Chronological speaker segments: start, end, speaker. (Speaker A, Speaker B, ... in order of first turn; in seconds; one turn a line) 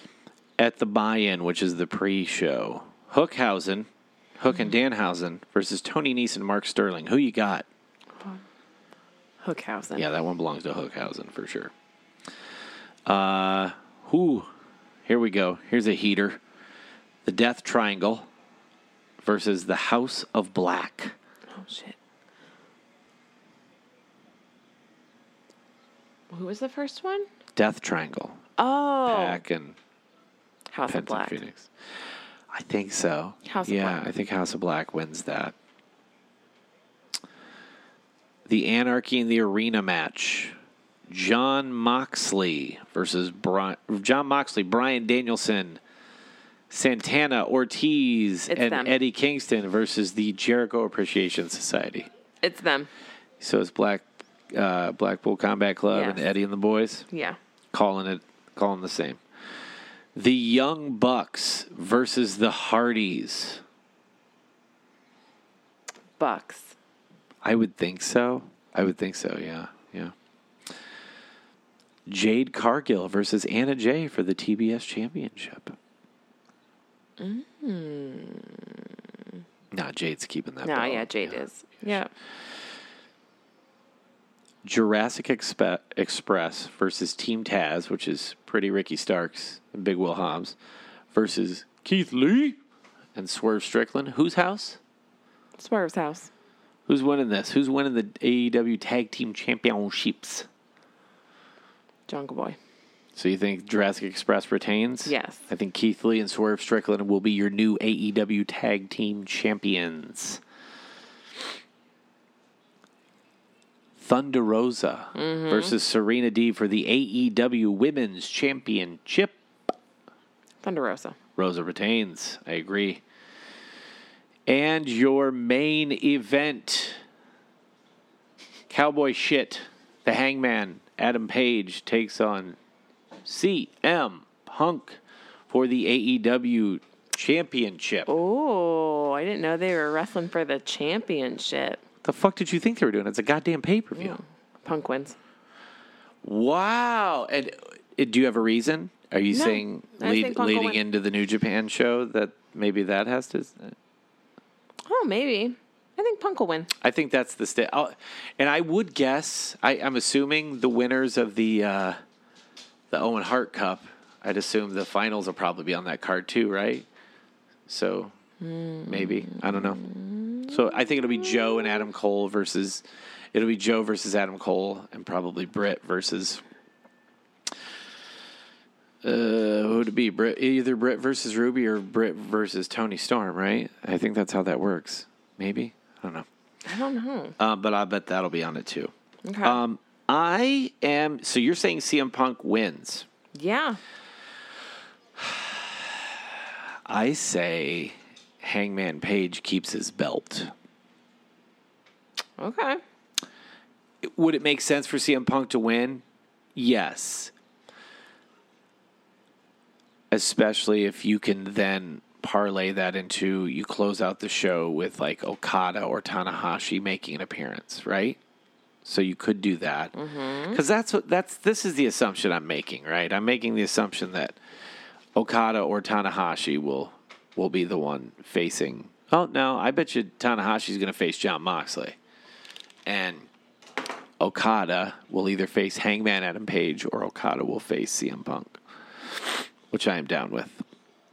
Speaker A: 0.6-7.7
Speaker B: 9.4-10.1
Speaker A: 9.9-11.7
Speaker A: 13.1-14.5
Speaker A: 15.1-16.4
Speaker A: 17.2-18.3
Speaker A: 19.2-21.1
Speaker B: 21.5-22.0
Speaker B: 26.3-27.3
Speaker A: 27.6-28.4
Speaker B: 28.6-29.4
Speaker A: 29.1-29.8
Speaker B: 30.7-31.4
Speaker A: 30.9-31.7
Speaker A: 32.5-35.5
Speaker B: 33.5-34.1
Speaker A: 38.5-40.6
Speaker A: 41.1-45.8
Speaker A: 46.7-52.1
Speaker B: 48.5-48.9
Speaker B: 52.4-52.9
Speaker A: 53.4-57.1
Speaker B: 55.9-56.4
Speaker B: 57.1-57.4
Speaker A: 57.7-59.2
Speaker A: 60.1-63.6
Speaker B: 66.2-66.8
Speaker A: 67.4-70.1
Speaker A: 72.1-75.8
Speaker B: 77.2-79.4
Speaker A: 79.7-81.4
Speaker B: 80.6-82.1
Speaker A: 84.6-90.5
Speaker A: 91.1-92.6
Speaker A: 93.1-94.8
Speaker B: 95.6-96.3
Speaker A: 96.9-100.5
Speaker B: 102.1-102.6
Speaker A: 103.1-110.4
Speaker B: 105.0-105.4
Speaker A: 114.0-119.4
Speaker B: 115.1-115.8
Speaker B: 120.6-121.2
Speaker A: 121.4-123.0
Speaker A: 124.5-127.0
Speaker A: 128.7-132.6
Speaker A: 133.2-138.1
Speaker B: 138.1-141.8
Speaker A: 142.0-144.2
Speaker B: 143.9-145.2
Speaker A: 146.2-153.8
Speaker B: 149.3-150.8
Speaker B: 154.9-156.7
Speaker A: 156.8-162.0
Speaker A: 162.9-166.9
Speaker A: 167.7-168.1
Speaker B: 168.4-170.6
Speaker A: 168.9-169.8
Speaker A: 170.5-176.4
Speaker B: 171.4-171.7
Speaker A: 179.0-186.3
Speaker B: 186.6-187.4
Speaker A: 187.4-193.1
Speaker B: 189.2-189.6
Speaker B: 193.3-193.8
Speaker A: 195.2-200.5
Speaker B: 202.4-202.8
Speaker A: 204.0-206.0
Speaker A: 206.6-207.3
Speaker A: 210.1-218.2
Speaker A: 218.8-220.0
Speaker B: 220.0-220.6
Speaker A: 220.5-224.4
Speaker A: 225.2-232.0
Speaker A: 232.9-233.3
Speaker A: 234.2-240.6